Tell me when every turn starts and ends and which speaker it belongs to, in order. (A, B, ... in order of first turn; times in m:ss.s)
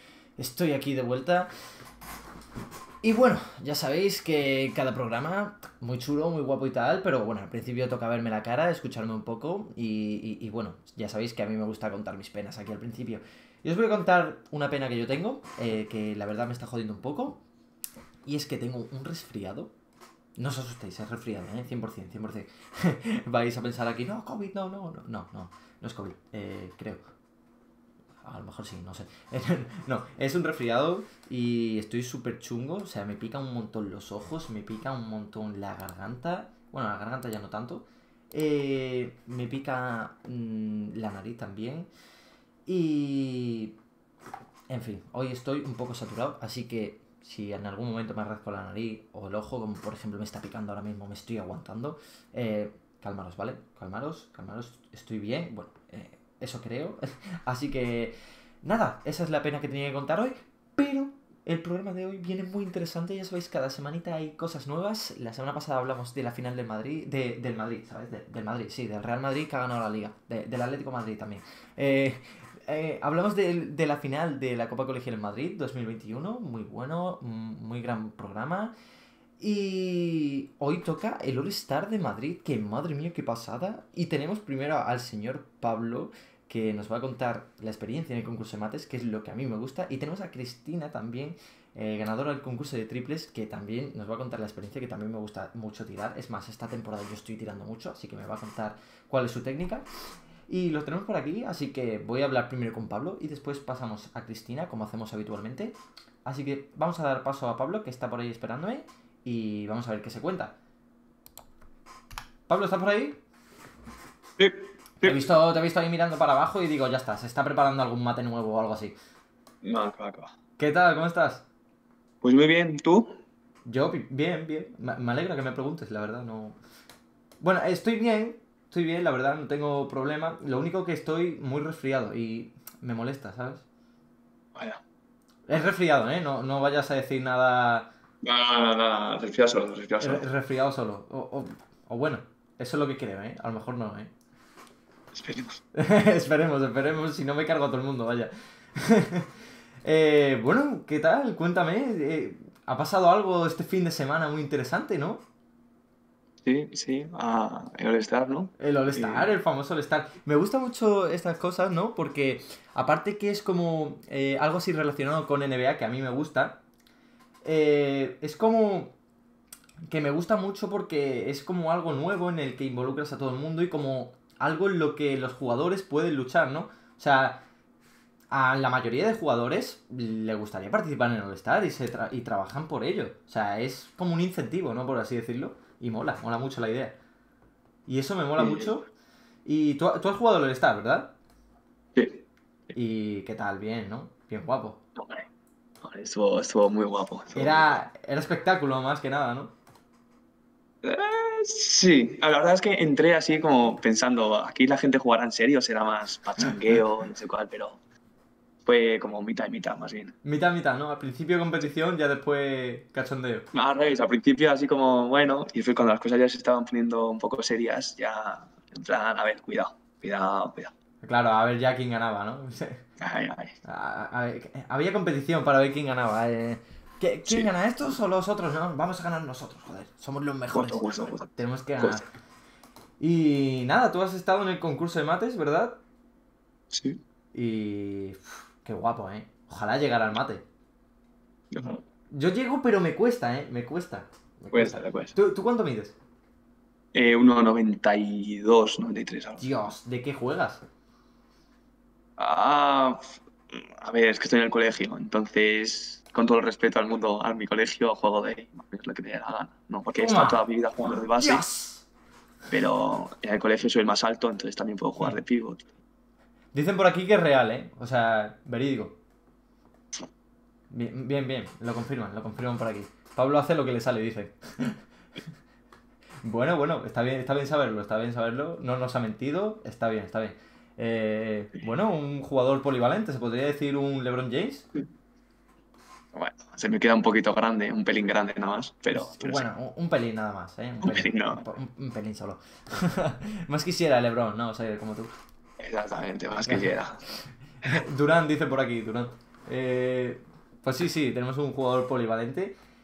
0:00.4-0:01.5 A
0:03.0-0:17.4 A
0:18.2-0:19.7 A
0:20.4-0:27.0 A
0:28.2-0:41.9 A
0:42.6-0:43.8 A
0:44.7-1:18.7 A
1:19.4-1:45.7 A
1:46.2-1:50.6 A
1:52.5-1:53.2 A
1:54.4-1:55.2 B
1:55.0-1:58.9 A
1:59.6-2:00.3 B
2:00.6-2:01.4 A
2:02.2-2:03.2 B
2:03.6-2:06.6 A
2:07.4-2:13.6 A
2:14.5-2:14.8 B
2:15.5-2:17.9 A
2:18.2-2:20.2 B
2:20.0-2:24.1 A
2:25.1-2:25.6 B
2:25.7-2:35.2 A
2:36.4-2:39.3 B
2:38.6-2:46.6 A
2:47.4-2:48.9 A
2:49.9-2:57.4 A
2:58.3-3:07.0 A
3:07.8-3:08.9 A
3:08.4-3:08.7 B
3:09.4-3:11.1 A
3:11.9-3:12.2 B
3:12.7-3:14.8 A
3:15.0-3:15.3 B
3:15.8-3:17.8 B
3:17.3-3:19.5 A
3:20.8-3:27.8 B
3:28.6-3:30.2 B
3:30.2-3:33.4 A
3:33.5-3:40.7 B
3:41.0-3:42.8 A
3:43.0-3:43.6 B
3:43.6-3:50.8 A
3:50.5-3:52.0 B
3:51.4-3:52.0 A
3:53.0-3:55.8 A
3:56.7-3:57.0 B
3:57.3-4:00.4 A
4:01.5-4:01.8 B
4:02.1-4:06.0 A
4:04.5-4:05.2 B
4:06.9-4:09.4 B
4:09.4-4:10.6 A
4:12.2-4:21.4 B
4:20.0-4:20.4 A
4:21.2-4:21.9 A
4:22.5-4:25.6 B
4:26.5-4:29.0 A
4:30.7-4:34.8 A
4:36.2-4:44.6 A
4:46.1-4:49.5 B
4:48.9-4:55.1 A
4:50.8-4:51.5 B
4:55.6-4:57.0 B
4:56.4-4:56.7 A
4:57.6-5:02.5 A